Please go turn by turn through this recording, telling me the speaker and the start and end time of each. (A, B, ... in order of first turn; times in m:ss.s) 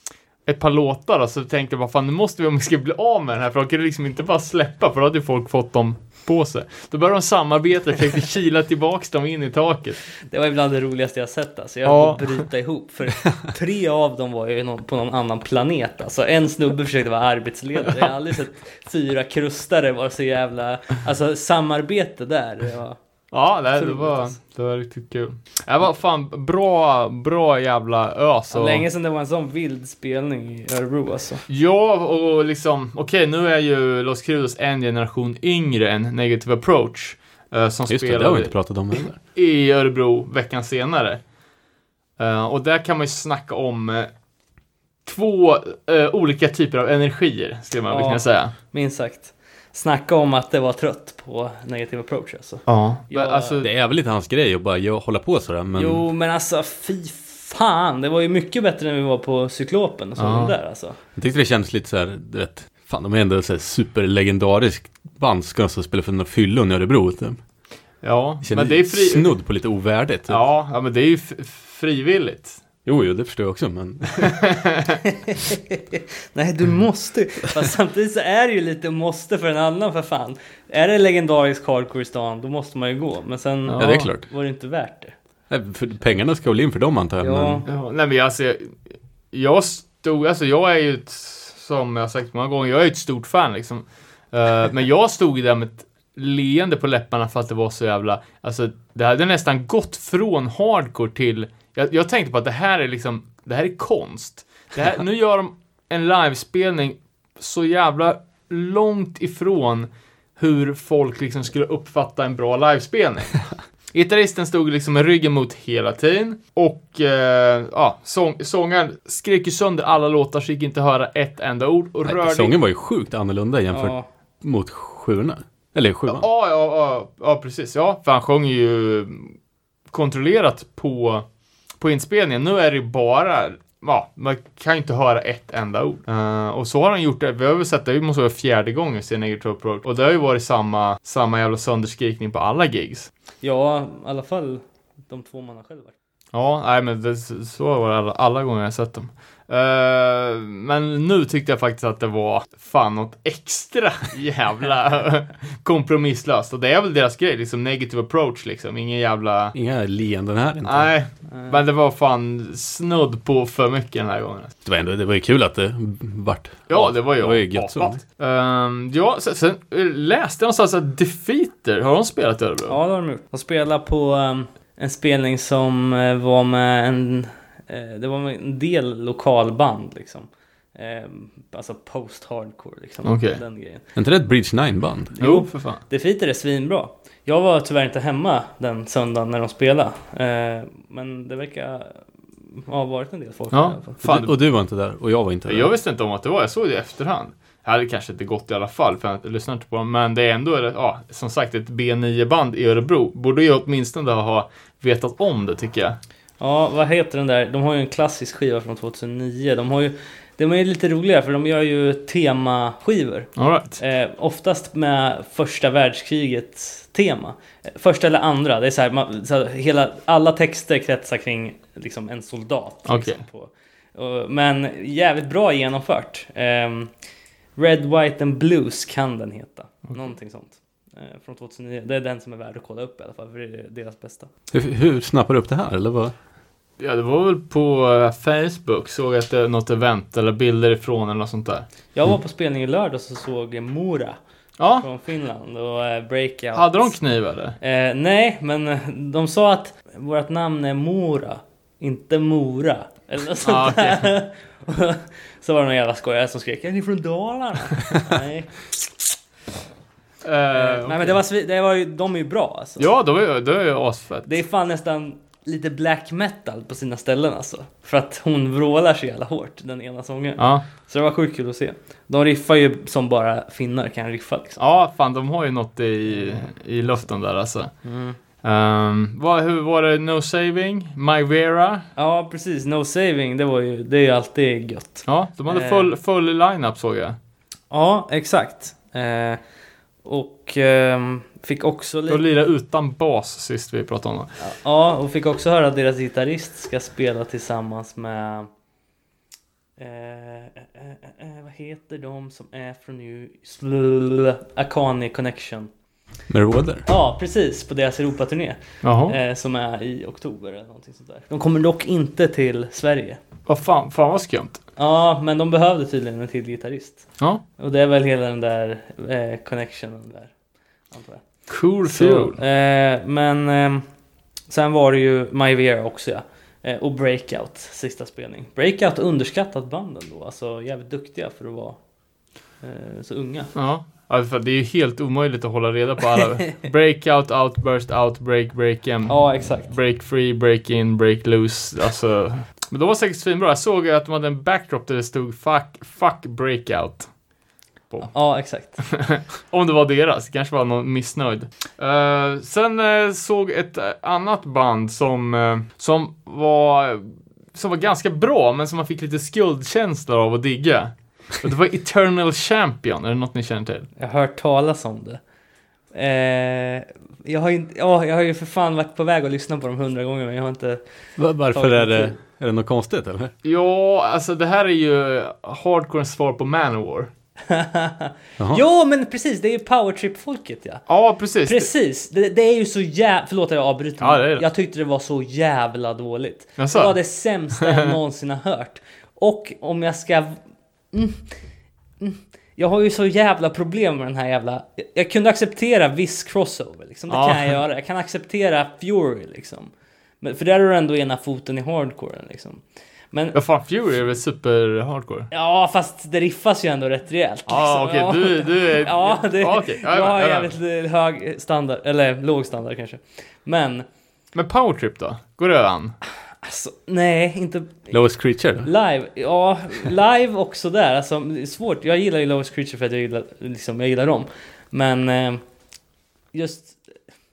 0:00.4-0:10.0 A
0:10.2-0:23.0 B
0:11.8-0:12.4 A
0:23.3-0:28.8 A
0:23.7-0:24.4 B
0:28.5-0:31.4 B
0:31.5-0:41.2 A
0:37.9-0:39.2 C
0:42.2-0:44.1 A
0:45.0-0:48.5 A
0:47.9-0:53.6 B
0:52.7-0:53.7 A
0:53.6-0:56.0 C
0:55.8-1:01.0 B
1:00.2-1:00.5 A
1:01.1-1:07.4 C
1:08.0-1:09.3 A
1:08.4-1:10.4 C
1:10.3-1:12.6 A
1:12.8-1:14.4 C
1:14.4-1:15.0 A
1:15.0-1:25.2 B
1:23.6-1:24.1 A
1:23.8-1:24.3 C
1:25.5-1:27.6 C
1:27.2-1:27.7 B
1:27.6-2:02.5 A
2:02.0-2:06.3 C
2:03.7-2:04.0 B
2:06.1-2:09.4 A
2:09.9-2:11.2 A
2:11.8-2:23.1 A
2:23.4-2:25.9 B
2:26.3-2:39.5 A
2:39.5-2:40.9 C
2:40.6-2:44.5 A
2:41.3-2:41.6 B
2:44.6-2:48.0 C
2:46.7-2:52.8 A
2:52.7-3:03.8 B
3:03.0-3:03.4 A
3:04.0-3:05.2 C
3:05.1-3:13.9 B
3:05.2-3:05.8 A
3:13.5-3:14.3 A
3:14.0-3:15.7 C
3:15.5-3:26.0 A
3:26.4-3:46.9 B
3:33.4-3:33.8 A
3:42.8-3:43.2 A
3:47.6-3:54.3 B
3:54.5-3:56.1 C
3:56.8-4:01.6 A
4:01.9-4:04.2 B
4:04.6-4:04.8 A
4:04.8-4:07.0 B
4:06.5-4:07.6 A
4:07.6-4:18.6 B
4:13.4-4:14.1 A
4:20.2-4:21.2 A
4:20.5-4:22.9 B
4:22.8-4:24.4 A
4:24.2-4:34.6 B
4:30.4-4:30.6 A
4:34.6-4:37.8 A
4:36.2-4:36.4 B
4:37.8-4:38.2 B
4:38.4-4:41.9 A
4:41.9-4:45.9 B
4:45.0-4:47.2 A
4:47.7-4:49.4 B
4:50.0-4:52.2 B
4:52.1-4:54.4 A
4:54.4-4:58.5 B
4:59.8-5:05.7 B
5:06.3-5:06.8 C
5:06.8-5:13.2 B
5:08.8-5:09.2 A
5:13.5-5:14.6 A
5:14.8-5:20.3 B
5:20.9-5:23.8 B
5:21.5-5:22.4 A
5:24.5-5:31.8 B
5:32.6-5:33.5 B
5:33.5-5:47.1 A
5:39.1-5:39.7 B
5:47.9-6:03.9 A
5:48.0-5:48.8 B
6:04.0-6:05.2 B
6:05.9-6:10.8 B
6:11.2-6:13.3 C
6:11.5-6:12.2 B
6:13.4-6:17.1 A
6:17.5-6:20.8 B
6:20.9-6:21.7 A
6:21.4-6:31.3 B
6:24.0-6:24.4 A
6:26.6-6:27.0 A
6:27.6-6:27.9 A
6:32.0-6:43.4 B
6:37.1-6:37.6 A
6:43.3-6:45.3 A
6:45.3-6:53.8 B
6:47.5-6:50.6 A
6:54.3-6:56.0 A
6:56.4-6:57.9 B
6:57.9-6:58.7 C
6:58.6-7:05.4 B
7:06.3-7:06.8 B